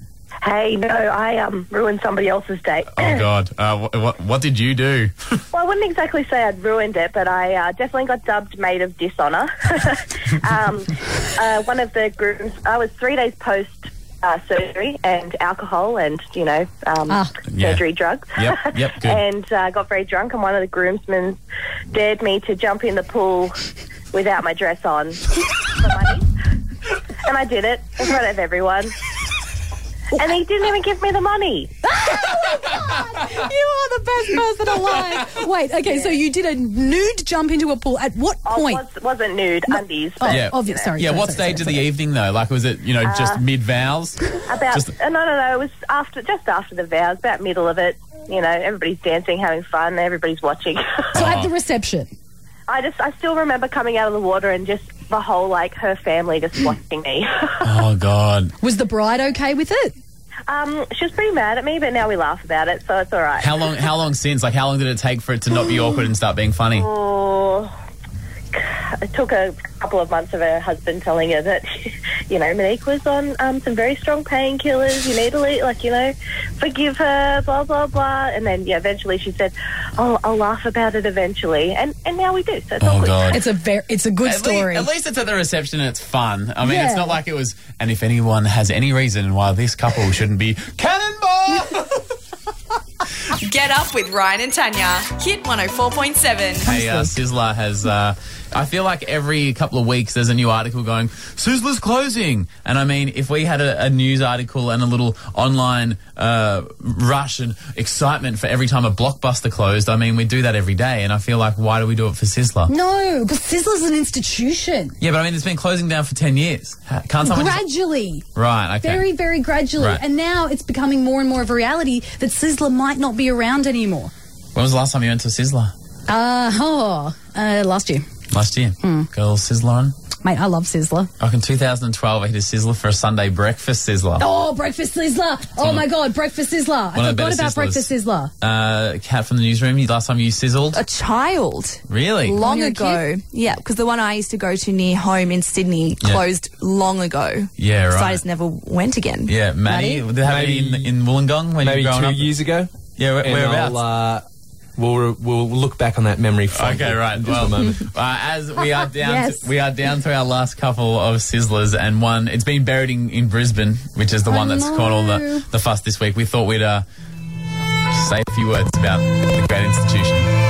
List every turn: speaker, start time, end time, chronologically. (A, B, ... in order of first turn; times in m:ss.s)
0:00.4-0:03.2 A
0:03.0-0:05.4 B
0:05.5-0:21.4 A
0:17.1-0:17.3 C
0:17.5-0:17.8 B
0:18.3-0:19.2 B
0:21.9-0:26.3 A
0:27.2-0:29.0 A
0:30.1-0:31.7 A
0:31.8-0:38.8 C
0:35.9-0:36.2 A
0:38.4-0:40.9 A
0:39.7-0:41.8 C
0:40.3-0:44.9 B
0:43.0-0:43.4 A
0:44.4-0:51.2 A
0:51.1-0:52.1 C
0:51.1-0:51.5 B
0:52.7-0:57.6 A
0:57.6-0:58.5 B
0:58.6-0:59.9 C
1:00.5-1:03.7 A
1:03.4-1:06.9 B
1:06.7-1:07.7 A
1:08.5-1:23.4 A
1:22.8-1:23.4 B
1:23.3-1:24.9 C
1:24.2-1:32.0 B
1:26.6-1:27.2 C
1:33.4-1:36.7 D
1:36.6-1:52.7 B
1:36.6-1:37.2 C
1:52.7-1:55.0 C
1:55.0-1:57.6 B
1:57.2-1:58.2 C
1:58.3-1:59.0 B
1:58.8-2:04.1 C
2:04.5-2:05.7 B
2:06.1-2:08.0 C
2:08.3-2:09.9 B
2:08.8-2:09.1 C
2:10.2-2:11.1 C
2:11.2-2:14.2 B
2:14.2-2:18.3 C
2:15.6-2:15.9 B
2:16.9-2:17.9 B
2:18.4-2:20.8 B
2:20.7-2:29.3 E
2:21.9-2:22.4 B
2:22.4-2:23.0 C
2:27.6-2:28.2 B
2:29.2-2:32.3 B
2:29.6-2:30.0 C
2:30.2-2:30.9 F
2:31.6-2:34.2 F
2:33.0-2:33.8 B
2:34.8-2:37.9 F
2:36.5-2:46.8 B
2:38.9-2:39.5 C
2:44.3-2:45.4 C
2:47.9-2:50.3 B